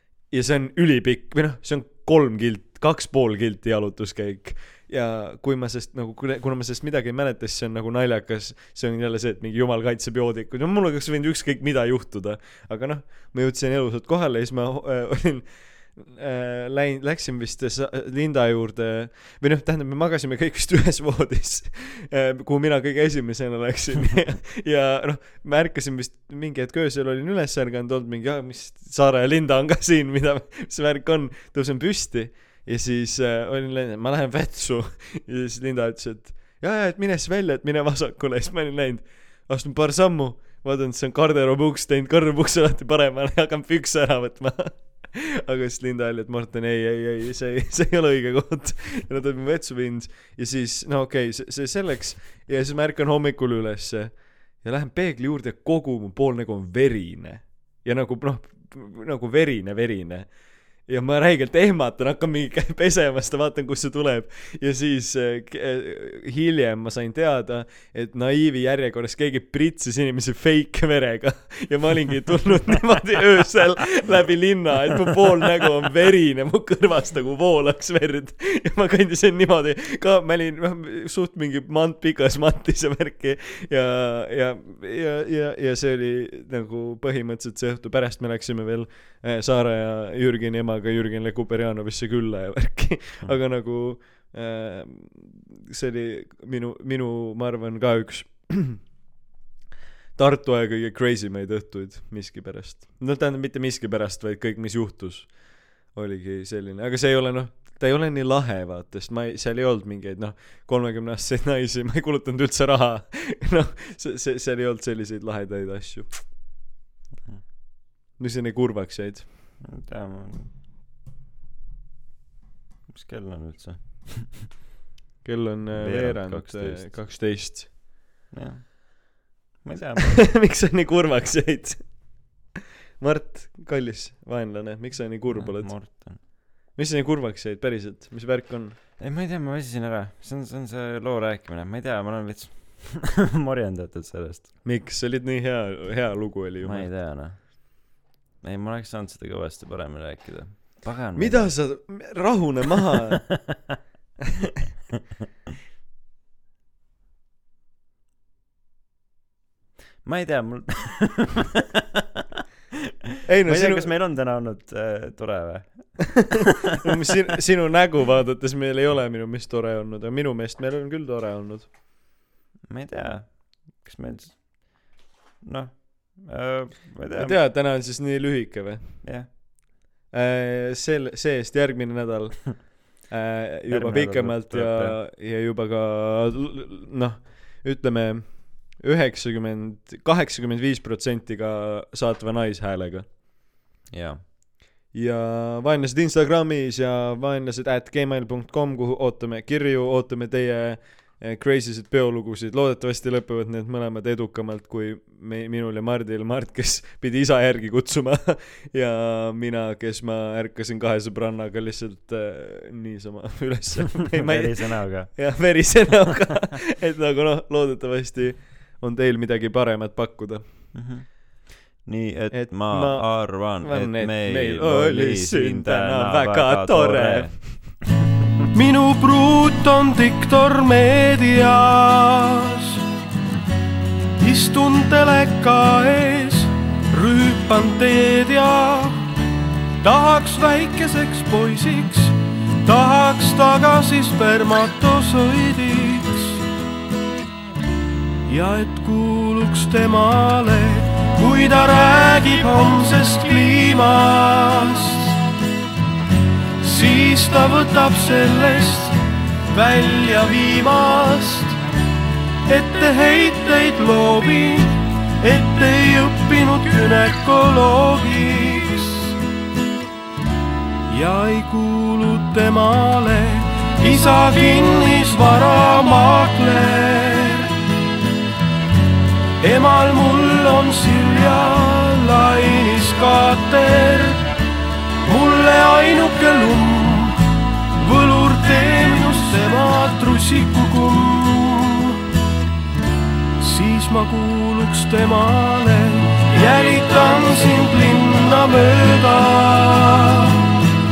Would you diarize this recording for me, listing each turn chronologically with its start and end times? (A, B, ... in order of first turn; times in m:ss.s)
0:00.2-1:38.8 A
1:40.2-1:56.2 A
1:58.2-1:59.2 A
1:59.6-2:00.5 B
2:02.9-2:04.5 B
2:05.2-2:07.7 A
2:05.7-2:07.0 B
2:08.3-2:10.3 B
2:10.1-2:18.8 A
2:15.3-2:16.2 B
2:19.0-2:24.5 B
2:24.6-2:26.9 A
2:26.6-2:31.6 B
2:31.2-2:33.4 A
2:40.0-2:42.0 B
2:43.3-2:43.9 A
2:43.5-2:46.4 B
2:46.8-2:51.7 A
2:52.7-2:57.4 B
2:57.2-2:59.6 A
2:59.0-2:59.3 B
3:00.1-3:13.1 A
3:03.7-3:05.0 B
3:13.9-3:14.3 B
3:14.9-3:40.4 A
3:34.2-3:35.2 B
3:40.7-3:47.6 B
3:42.3-3:47.3 A
3:48.5-3:52.8 C
3:54.2-3:59.2 C
3:59.8-4:06.4 C
4:08.3-4:15.2 C
4:16.6-4:21.6 C
4:22.5-4:29.2 C
4:30.9-4:37.5 C
4:39.4-4:44.4 C
4:45.1-4:47.2 C
4:47.8-4:52.0 C
4:53.4-5:00.6 C